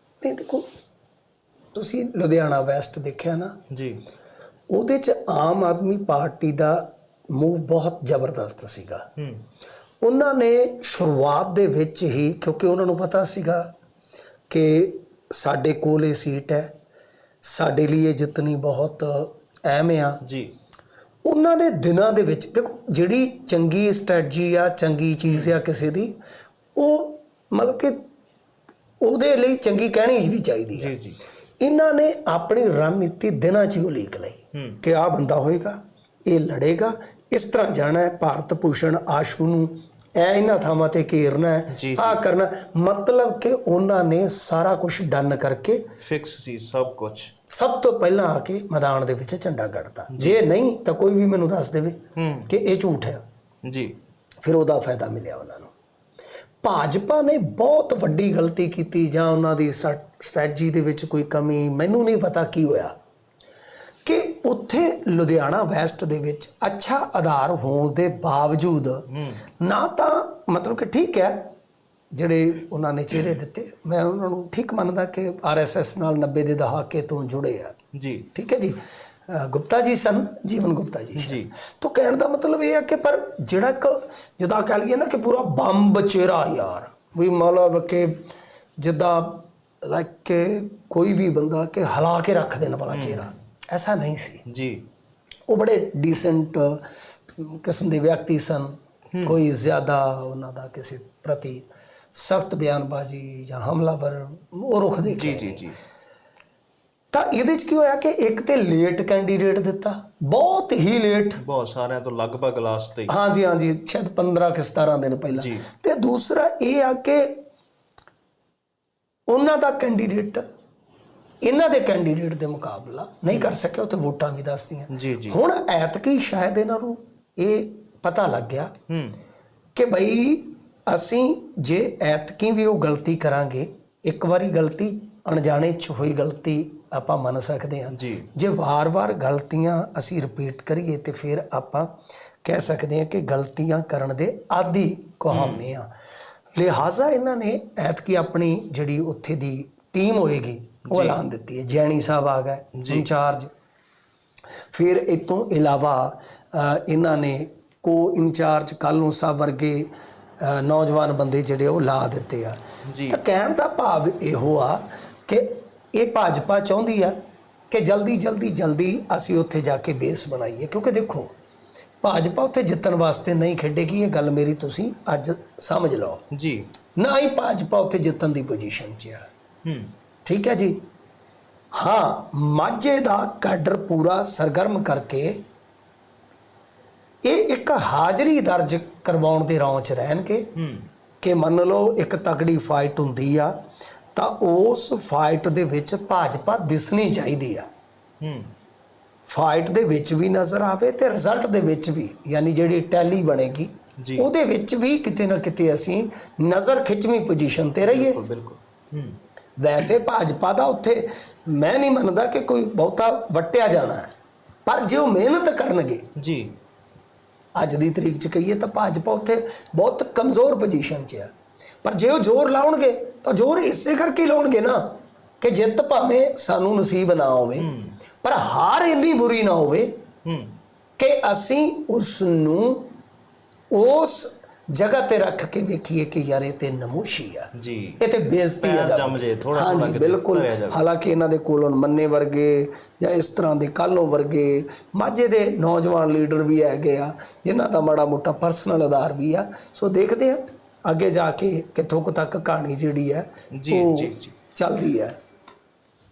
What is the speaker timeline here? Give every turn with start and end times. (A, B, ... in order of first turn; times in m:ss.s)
0:00.2-0:00.7 A
0:01.7-0:03.6 A
0:03.7-0:04.0 B
0:04.7-0:09.1 A
0:09.2-0:09.4 B
0:10.0-0:13.7 A
0:14.5-0:16.7 A
0:17.4-0:20.2 A
0:20.2-0:20.5 B
0:21.2-0:26.2 A
0:25.3-0:25.6 B
0:26.8-0:28.0 A
0:29.0-0:30.9 A
0:30.8-0:31.2 B
0:31.6-0:45.8 A
0:34.5-0:34.8 B
0:41.7-0:42.2 B
0:46.0-0:47.3 B
0:47.5-0:53.2 A
0:50.1-0:50.4 B
0:52.2-0:52.5 B
0:53.6-0:54.0 B
0:54.4-0:55.7 A
0:56.6-1:03.0 A
1:04.0-1:09.1 A
1:09.1-1:09.4 B
1:09.6-1:11.5 A
1:12.1-1:17.8 A
1:17.9-1:18.3 B
1:18.4-1:28.2 A
1:21.2-1:21.5 B
1:28.8-1:34.4 A
1:32.9-1:33.3 B
1:34.5-1:34.8 B
1:35.5-1:36.9 A
1:37.4-1:45.7 A
1:45.1-1:45.8 B
1:47.1-1:51.4 A
1:51.4-1:53.1 B
1:53.1-1:57.4 A
1:55.4-1:55.7 B
1:59.3-2:00.4 A
2:01.4-2:08.7 A
2:04.9-2:05.4 B
2:08.9-2:09.2 B
2:09.8-2:25.9 A
2:17.9-2:18.3 B
2:25.3-2:25.7 B
2:26.6-2:33.5 A
2:30.9-2:31.2 B
2:32.8-2:33.1 B
2:34.7-2:47.2 A
2:42.9-2:43.2 B
2:47.7-2:51.3 A
2:52.0-2:56.2 A
2:56.3-2:56.7 B
2:57.0-2:59.3 A
2:59.6-2:59.9 B
3:00.2-3:00.8 A
3:01.7-3:05.4 A
3:07.2-3:10.5 A
3:10.6-3:10.9 B
3:11.2-3:13.6 A
3:14.2-3:17.7 A
3:18.2-3:18.5 B
3:19.3-3:28.2 A
3:24.0-3:24.3 B
3:27.8-3:29.2 B
3:29.6-3:34.1 A
3:34.7-3:36.1 A
3:36.2-3:36.6 B
3:37.6-3:47.7 A
3:47.6-3:48.0 B
3:48.2-3:50.0 A
3:50.2-3:50.6 B
3:51.0-3:52.9 A
3:53.7-4:15.2 A
3:57.6-3:58.0 B
3:58.6-4:00.8 B
4:13.5-4:14.4 B